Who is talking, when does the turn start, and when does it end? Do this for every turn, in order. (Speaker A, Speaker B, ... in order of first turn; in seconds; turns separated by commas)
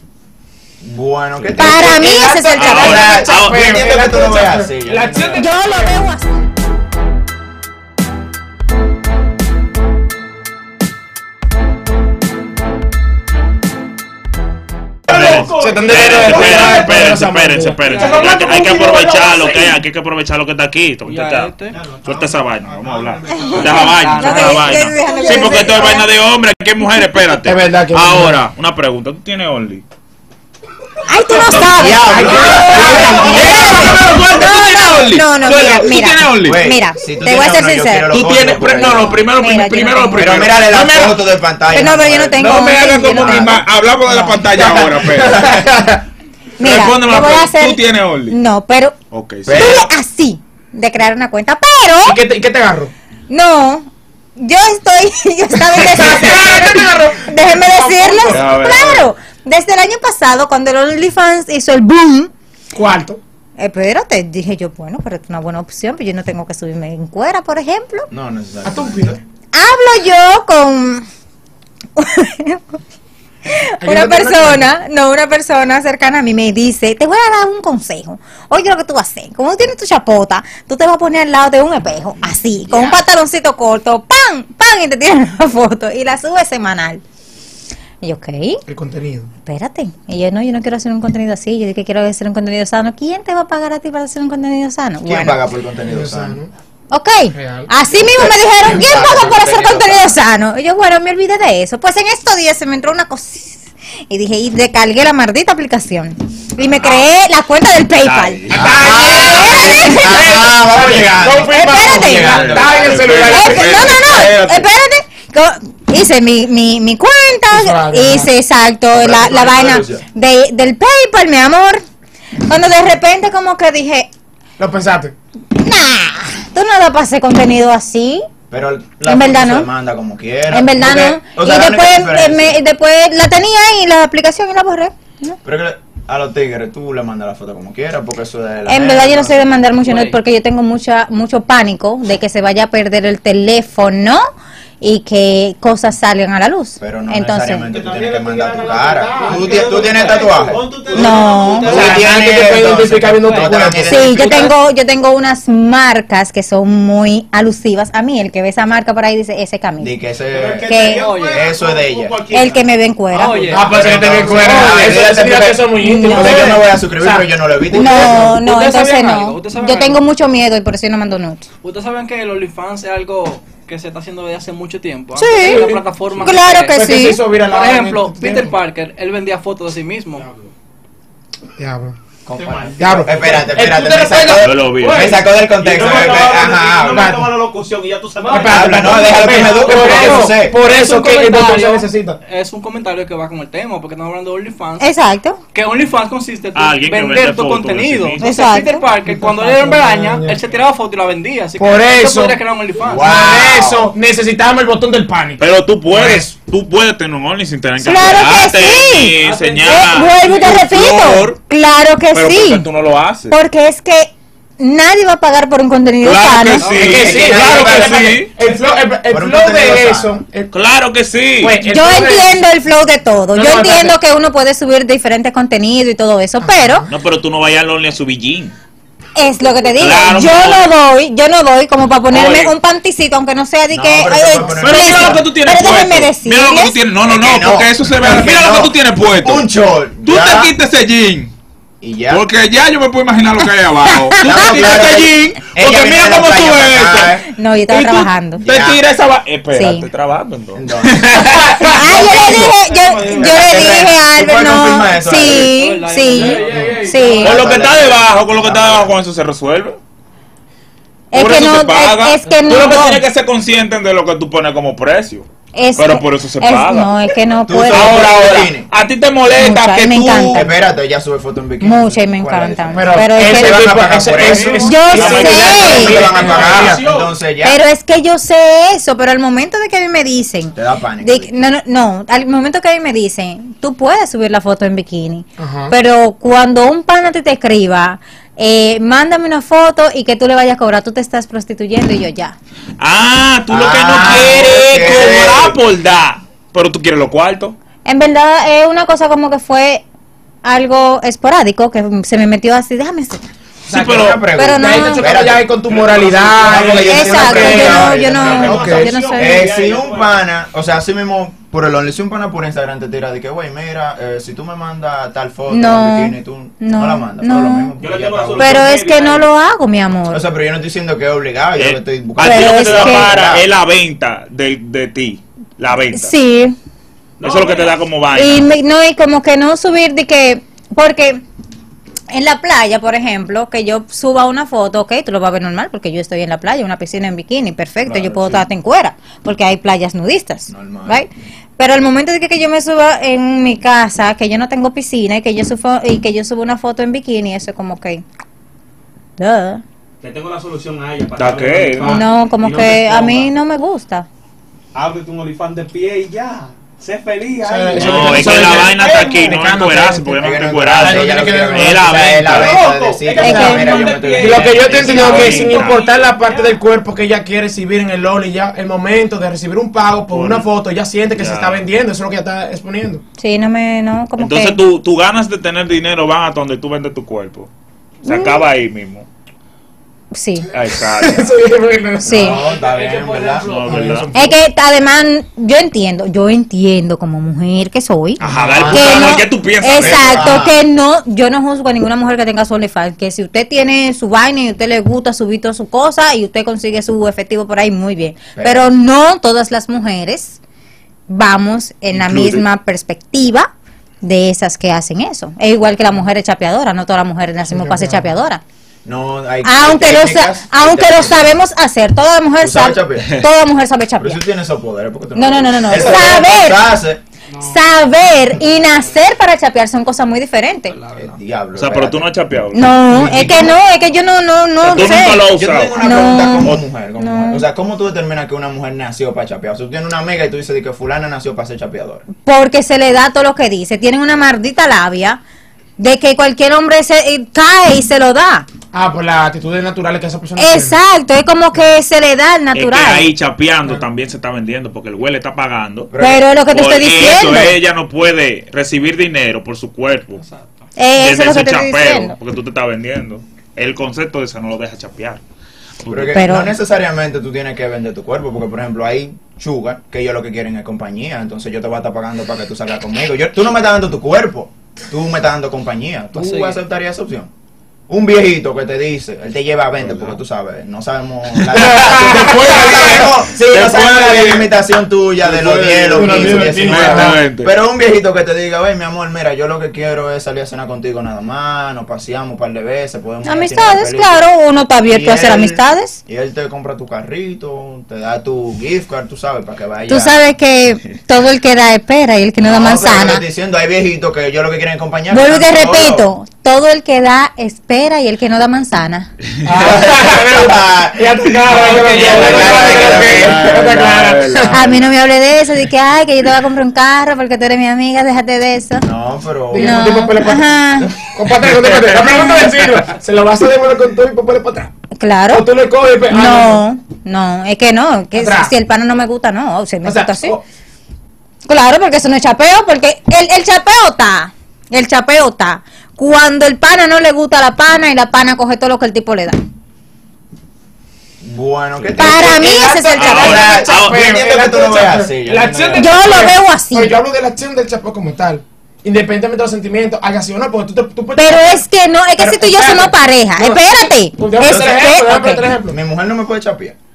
Speaker A: 0.8-5.5, Speaker B: 1.6-3.3, Speaker C: 1.8-5.9, Speaker D: 2.6-3.6, Speaker B: 5.4-6.4, Speaker D: 15.1-29.8, Speaker E: 15.1-17.1, Speaker C: 15.1-19.6, Speaker F: 17.8-18.6, Speaker E: 18.0-19.8, Speaker F: 21.1-21.8, Speaker B: 23.3-26.1, Speaker F: 23.4-25.5, Speaker C: 27.4-28.4, Speaker B: 31.1-38.1, Speaker D: 31.4-36.6, Speaker A: 31.5-33.9, Speaker C: 32.0-34.3, Speaker A: 36.4-39.2, Speaker D: 38.1-41.2, Speaker B: 39.0-40.3, Speaker A: 40.1-43.6, Speaker B: 41.7-44.4, Speaker D: 42.4-45.5, Speaker A: 44.5-45.7, Speaker C: 45.6-45.9, Speaker B: 46.6-48.9, Speaker D: 46.6-48.3, Speaker D: 49.1-49.7, Speaker A: 49.4-49.9, Speaker B: 49.5-52.2, Speaker C: 52.0-52.9, Speaker B: 53.3-62.3, Speaker C: 55.7-58.5, Speaker D: 55.7-56.9, Speaker D: 58.3-59.1, Speaker C: 62.7-63.2, Speaker B: 63.6-68.1, Speaker A: 68.1-69.2, Speaker C: 68.6-69.2, Speaker B: 69.5-71.0, Speaker B: 72.0-72.8, Speaker B: 73.5-87.0, Speaker C: 73.8-74.7, Speaker A: 82.5-83.0, Speaker B: 88.0-88.6, Speaker C: 88.7-89.3, Speaker B: 89.4-95.4, Speaker A: 95.0-96.4, Speaker C: 95.9-96.5, Speaker B: 96.9-110.3, Speaker C: 97.3-97.7, Speaker A: 98.1-100.2, Speaker D: 108.0-109.9, Speaker C: 108.5-114.0, Speaker A: 108.5-112.6, Speaker B: 111.4-112.6, Speaker D: 112.0-114.6, Speaker B: 113.2-121.8, Speaker C: 117.5-118.3, Speaker A: 118.9-120.0, Speaker B: 122.5-124.1, Speaker C: 124.6-125.1, Speaker B: 125.5-128.2, Speaker A: 128.5-132.6, Speaker B: 129.1-129.7, Speaker B: 130.5-135.4, Speaker A: 135.4-139.6, Speaker B: 138.7-144.2, Speaker F: 139.8-140.2, Speaker B: 144.8-147.7, Speaker A: 146.8-154.5, Speaker E: 147.7-152.0, Speaker C: 149.1-149.8, Speaker B: 150.9-151.8, Speaker C: 151.6-154.2, Speaker F: 153.1-153.5, Speaker B: 153.8-159.9, Speaker A: 159.8-162.3, Speaker E: 160.3-162.6, Speaker B: 160.7-161.0, Speaker F: 161.0-161.4, Speaker B: 162.3-163.6, Speaker F: 163.1-163.7, Speaker C: 163.5-168.7, Speaker E: 163.6-165.0, Speaker A: 163.6-168.4, Speaker B: 164.4-164.7, Speaker B: 165.8-166.6, Speaker B: 167.7-171.5, Speaker F: 168.6-170.0, Speaker F: 171.6-180.3, Speaker B: 175.2-177.2, Speaker C: 175.4-178.5, Speaker C: 181.6-181.9, Speaker A: 182.2-187.1, Speaker E: 182.4-183.6, Speaker C: 182.8-185.2, Speaker D: 184.4-185.2, Speaker E: 185.4-190.2, Speaker C: 186.9-187.3, Speaker C: 188.2-192.2, Speaker A: 188.4-190.6, Speaker F: 189.7-194.9, Speaker B: 194.8-195.4, Speaker F: 195.5-203.2, Speaker D: 196.5-198.3, Speaker B: 198.2-198.8, Speaker C: 199.0-200.4, Speaker C: 201.6-202.4, Speaker A: 202.8-203.9, Speaker C: 203.0-206.3, Speaker D: 205.4-211.4, Speaker B: 207.8-212.6, Speaker C: 209.3-209.6, Speaker D: 212.1-213.3, Speaker B: 213.3-216.7, Speaker D: 216.0-218.3, Speaker F: 216.6-217.2, Speaker C: 216.7-220.5, Speaker A: 217.0-220.2, Speaker D: 220.5-221.6, Speaker C: 221.4-222.3, Speaker B: 221.7-226.9, Speaker C: 223.3-224.0, Speaker C: 226.4-226.9, Speaker D: 226.9-228.5, Speaker B: 229.2-236.8, Speaker D: 229.8-230.7, Speaker D: 232.1-232.5, Speaker A: 233.7-235.2, Speaker D: 234.6-239.5, Speaker A: 237.0-240.5, Speaker D: 240.0-241.3, Speaker A: 241.8-242.2, Speaker D: 242.1-251.7, Speaker B: 243.9-244.5, Speaker A: 244.2-247.2, Speaker B: 247.3-248.4, Speaker A: 248.4-248.8, Speaker B: 249.5-249.9, Speaker A: 250.5-252.5, Speaker C: 251.2-252.0, Speaker B: 251.7-257.4, Speaker F: 251.8-253.8, Speaker A: 253.3-255.5, Speaker F: 255.2-256.8, Speaker C: 256.1-257.6, Speaker A: 256.5-259.0, Speaker D: 257.2-259.8, Speaker B: 261.1-263.0, Speaker D: 261.1-266.9, Speaker B: 265.5-268.1, Speaker A: 267.4-268.7, Speaker D: 267.7-270.5, Speaker B: 269.3-270.5, Speaker A: 270.2-277.6, Speaker B: 271.6-274.0, Speaker C: 272.7-276.9, Speaker D: 274.2-276.1, Speaker B: 274.5-276.0, Speaker E: 276.1-277.1, Speaker B: 277.4-292.4, Speaker A: 280.5-281.3, Speaker C: 285.4-285.7, Speaker D: 292.8-297.5, Speaker A: 293.5-295.6, Speaker C: 293.9-294.4, Speaker B: 297.8-299.8, Speaker B: 300.4-303.2, Speaker D: 303.6-304.2, Speaker C: 303.7-307.9, Speaker A: 303.9-305.5, Speaker B: 304.4-305.1, Speaker E: 305.7-310.2, Speaker A: 306.4-318.7, Speaker B: 306.8-309.5, Speaker B: 315.5-317.7, Speaker E: 317.8-319.3, Speaker B: 318.4-320.2, Speaker A: 320.1-323.4, Speaker D: 321.6-326.1, Speaker B: 322.2-323.1, Speaker B: 325.9-326.6, Speaker E: 327.2-327.8, Speaker D: 327.2-328.5, Speaker B: 328.1-331.2, Speaker B: 332.1-348.0, Speaker A: 337.8-338.5, Speaker A: 340.5-341.0, Speaker B: 349.2-349.6, Speaker E: 350.0-353.3, Speaker D: 351.1-352.1, Speaker B: 351.8-354.1, Speaker E: 354.7-359.5, Speaker C: 357.4-361.9, Speaker D: 357.8-362.6, Speaker A: 360.2-365.4, Speaker E: 362.3-366.6, Speaker C: 363.1-373.0, Speaker B: 363.2-363.7, Speaker D: 364.6-365.8, Speaker D: 370.1-370.5, Speaker D: 371.1-371.6, Speaker B: 373.2-374.6, Speaker D: 374.2-377.5, Speaker D: 378.0-379.1, Speaker B: 378.1-378.4, Speaker B: 380.1-380.5, Speaker D: 380.5-381.4, Speaker C: 380.9-384.4, Speaker B: 382.0-382.4, Speaker A: 382.1-383.5, Speaker E: 382.5-383.6, Speaker D: 383.4-384.1, Speaker B: 384.1-400.4, Speaker D: 388.2-390.6, Speaker A: 388.2-389.2, Speaker A: 389.7-390.5, Speaker A: 398.4-398.7, Speaker B: 401.1-403.5, Speaker A: 401.9-402.4, Speaker B: 404.0-408.4, Speaker C: 407.5-408.1, Speaker A: 408.8-411.4, Speaker B: 409.4-414.2, Speaker A: 412.4-413.1, Speaker A: 414.0-417.0, Speaker B: 415.1-416.6, Speaker B: 417.4-420.8, Speaker F: 420.8-421.1, Speaker A: 420.9-422.1, Speaker D: 421.5-423.4, Speaker B: 422.5-427.4, Speaker A: 422.9-423.6, Speaker D: 424.6-426.6, Speaker A: 424.7-432.0, Speaker B: 432.2-435.2, Speaker B: 435.8-438.5, Speaker C: 438.7-440.8, Speaker B: 440.4-443.1, Speaker D: 442.5-445.9, Speaker A: 445.9-446.3, Speaker B: 446.0-447.6, Speaker D: 446.5-450.2, Speaker B: 450.8-452.1, Speaker D: 450.9-455.2, Speaker D: 455.8-456.2, Speaker A: 455.9-467.3, Speaker B: 456.1-456.5, Speaker F: 466.1-466.6, Speaker A: 467.9-484.2, Speaker D: 469.8-470.2, Speaker D: 471.5-474.5, Speaker C: 471.5-473.4, Speaker E: 475.2-476.6, Speaker C: 475.9-477.2, Speaker D: 476.1-477.5, Speaker B: 483.2-486.0, Speaker A: 484.9-490.2, Speaker B: 489.9-493.2, Speaker A: 492.4-496.1, Speaker B: 495.1-499.1, Speaker C: 499.4-504.7, Speaker A: 499.6-503.7, Speaker D: 501.4-504.9, Speaker B: 504.5-508.9, Speaker A: 508.8-509.8, Speaker C: 509.5-514.7, Speaker B: 509.5-511.0, Speaker D: 511.3-512.7, Speaker B: 514.9-515.4, Speaker C: 515.3-516.6, Speaker B: 516.1-520.4, Speaker C: 518.1-518.5, Speaker C: 519.8-520.4, Speaker B: 521.5-529.4, Speaker A: 531.2-536.3, Speaker B: 532.0-533.8, Speaker C: 532.0-541.6, Speaker D: 533.0-534.0, Speaker B: 535.8-536.9, Speaker B: 541.1-545.4, Speaker C: 542.2-545.8, Speaker A: 544.4-544.8, Speaker A: 545.7-546.8